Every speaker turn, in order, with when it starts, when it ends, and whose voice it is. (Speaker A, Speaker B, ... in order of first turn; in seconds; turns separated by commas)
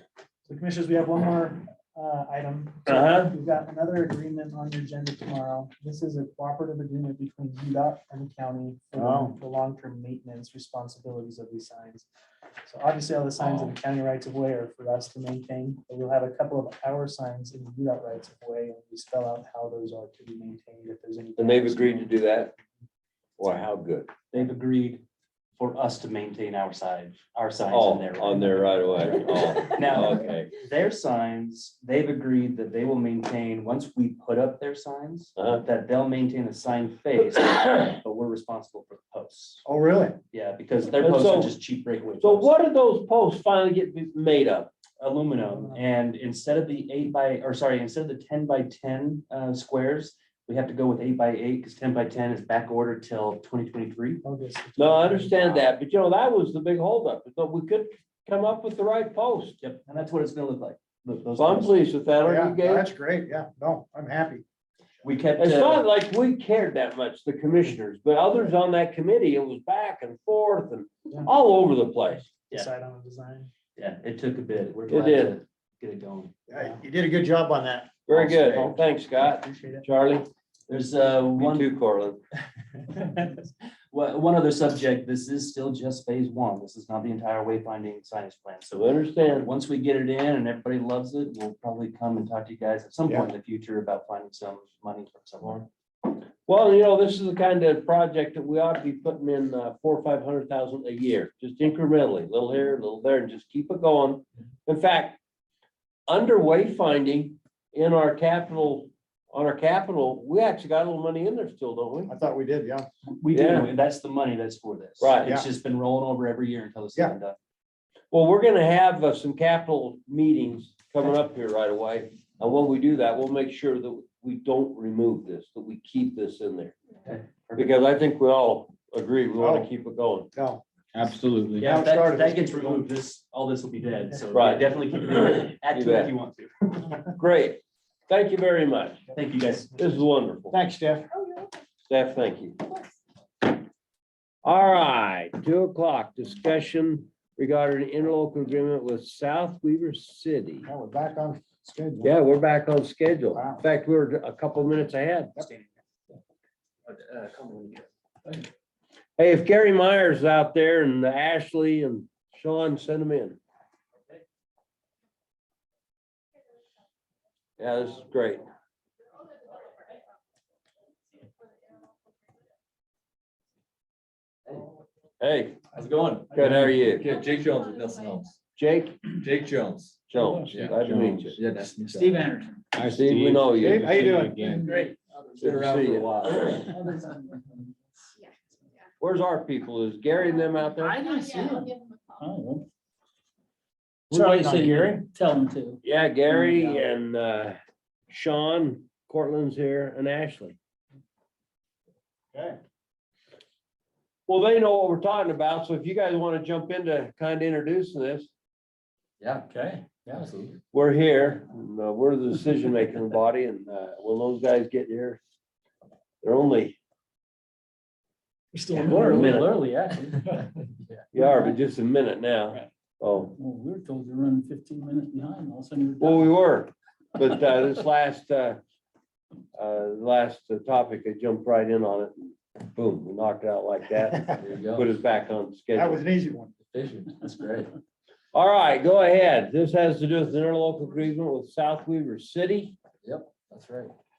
Speaker A: 0.5-12.1, Speaker B: 2.9-3.3, Speaker C: 8.9-9.4, Speaker A: 12.7-22.2, Speaker B: 21.4-22.5, Speaker B: 23.4-24.1, Speaker D: 24.3-25.0, Speaker D: 25.6-39.6, Speaker B: 27.7-30.5, Speaker B: 35.4-35.6, Speaker C: 39.6-40.2, Speaker D: 40.3-42.5, Speaker B: 41.0-41.5, Speaker B: 42.2-44.7, Speaker D: 45.0-54.2, Speaker A: 45.5-45.8, Speaker A: 54.2-55.7, Speaker B: 54.8-59.6, Speaker D: 59.6-61.8, Speaker B: 61.4-62.9, Speaker C: 62.2-64.4, Speaker D: 65.0-65.8, Speaker B: 65.4-72.3, Speaker A: 72.5-73.5, Speaker D: 73.8-76.3, Speaker B: 74.9-75.3, Speaker C: 76.5-78.8, Speaker A: 76.5-76.8, Speaker B: 78.1-80.3, Speaker A: 78.5-79.8, Speaker D: 80.7-81.7, Speaker B: 81.3-82.2, Speaker D: 83.0-83.4, Speaker D: 83.9-95.7, Speaker B: 88.7-89.5, Speaker B: 96.5-105.2, Speaker B: 106.1-112.1, Speaker C: 112.1-112.9, Speaker D: 113.1-117.3, Speaker B: 113.3-113.7, Speaker B: 115.0-115.3, Speaker B: 118.1-126.7, Speaker D: 127.0-127.8, Speaker B: 127.6-130.3, Speaker C: 129.3-129.7, Speaker C: 130.3-130.6, Speaker E: 130.9-131.7, Speaker D: 131.6-137.0, Speaker C: 131.6-132.9, Speaker B: 134.3-136.1, Speaker B: 137.2-139.0, Speaker D: 139.1-140.0, Speaker B: 139.8-140.5, Speaker C: 140.5-141.1, Speaker B: 141.9-142.6, Speaker B: 144.4-150.7, Speaker C: 150.7-152.1, Speaker B: 152.0-155.5, Speaker C: 153.3-153.6, Speaker B: 156.9-157.8, Speaker B: 159.2-163.4, Speaker B: 167.6-168.4, Speaker F: 174.4-174.7, Speaker B: 175.2-175.6, Speaker F: 175.7-178.4, Speaker B: 176.3-177.1, Speaker B: 178.6-179.0, Speaker F: 179.1-180.8, Speaker B: 180.1-181.4, Speaker G: 180.2-180.5, Speaker E: 180.6-181.4, Speaker F: 181.3-182.3, Speaker G: 181.9-182.6, Speaker E: 182.7-184.8, Speaker B: 182.8-184.2, Speaker C: 183.6-184.4, Speaker G: 184.3-185.3, Speaker F: 185.3-186.7, Speaker B: 185.4-186.7, Speaker G: 186.7-187.4, Speaker B: 189.0-191.0, Speaker G: 190.8-192.7, Speaker G: 194.1-196.9, Speaker A: 194.2-194.7, Speaker B: 195.8-197.6, Speaker B: 198.1-200.6, Speaker C: 202.3-202.6, Speaker B: 204.3-208.3, Speaker F: 209.2-210.6, Speaker G: 209.5-210.3, Speaker B: 210.7-215.2, Speaker B: 216.2-216.8, Speaker G: 218.6-220.4, Speaker B: 218.8-219.6, Speaker F: 220.3-221.0, Speaker B: 221.1-223.3, Speaker G: 221.2-221.6, Speaker G: 223.3-226.4, Speaker B: 226.0-228.6, Speaker B: 229.5-236.0, Speaker F: 234.4-234.9, Speaker C: 235.7-236.5, Speaker F: 236.7-237.7, Speaker B: 238.3-242.8, Speaker F: 243.0-243.9